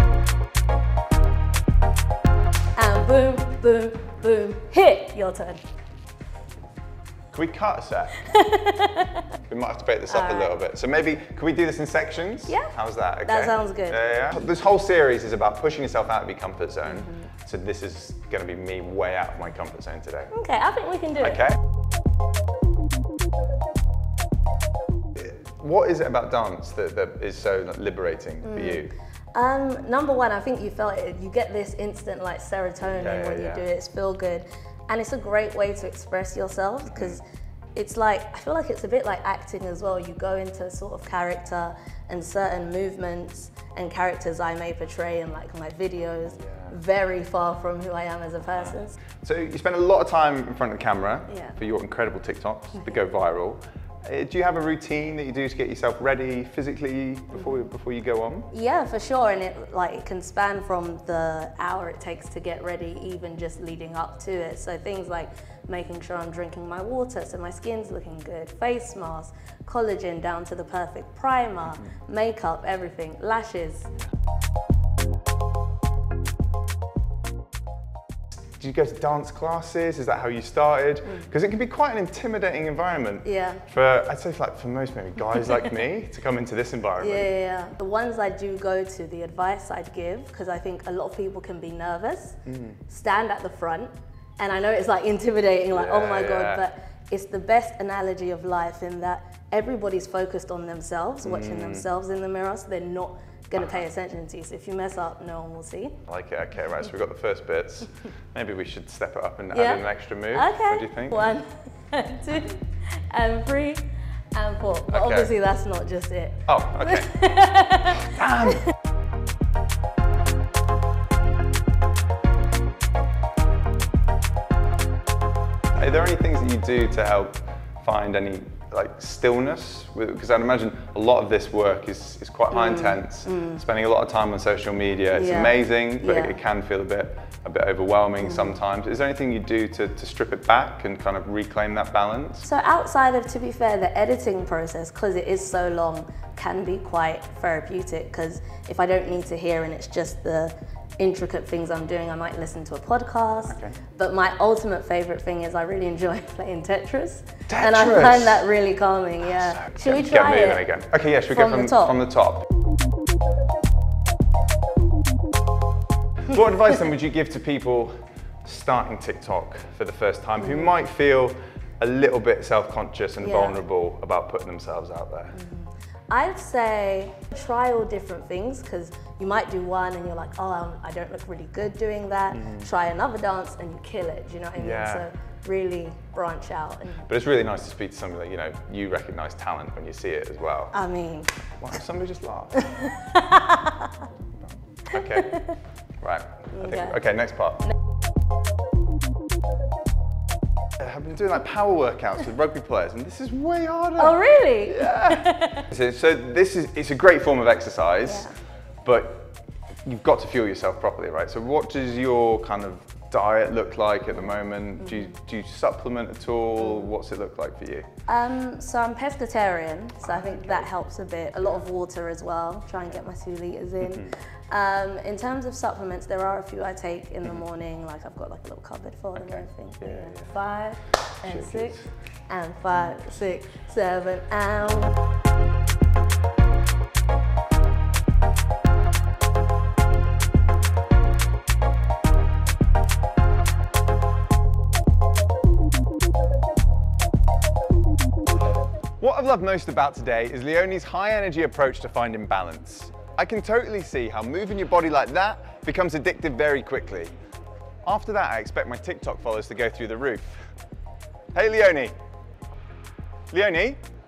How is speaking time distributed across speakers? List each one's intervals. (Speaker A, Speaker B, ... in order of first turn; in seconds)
Speaker A: 2.8-5.6, 8.2-9.3, 10.1-10.5, 12.5-12.7, 13.2-14.0, 16.9-17.3, 20.3-21.5, 28.4-37.2, 37.7-49.0, 51.3-51.6, 57.4-57.6, 58.5-73.9, 83.2-83.6, 87.0-106.0, 109.5-118.1, 132.5-133.6, 135.1-136.4, 138.2-138.6, 142.4-160.7, 161.3-162.0, 170.4-170.7, 173.2-173.6, 175.3-187.1, 190.7-191.3, 192.6-194.1, 194.9-195.4, 196.6-196.9, 204.0-205.7, 208.1-208.3, 214.8-215.1, 218.1-234.9
Speaker B: 7.3-8.2, 9.4-20.3, 21.2-21.6, 25.1-28.9, 32.9-33.6, 36.9-37.2, 46.4-46.7, 49.2-58.5, 78.6-87.3, 92.4-92.8, 95.7-96.6, 101.2-101.9, 103.5-103.8, 106.1-111.3, 114.9-115.3, 116.5-118.7, 125.7-142.4, 153.5-153.8, 157.5-158.4, 159.3-162.4, 166.3-175.3, 182.3-182.7, 184.6-185.0, 187.1-190.7, 191.6-192.7, 194.4-197.6, 200.8-208.3, 208.8-217.8, 220.0-220.7, 223.8-224.1, 229.2-230.2, 231.2-231.8, 249.0-257.1, 257.8-260.5, 261.3-261.9, 263.3-263.8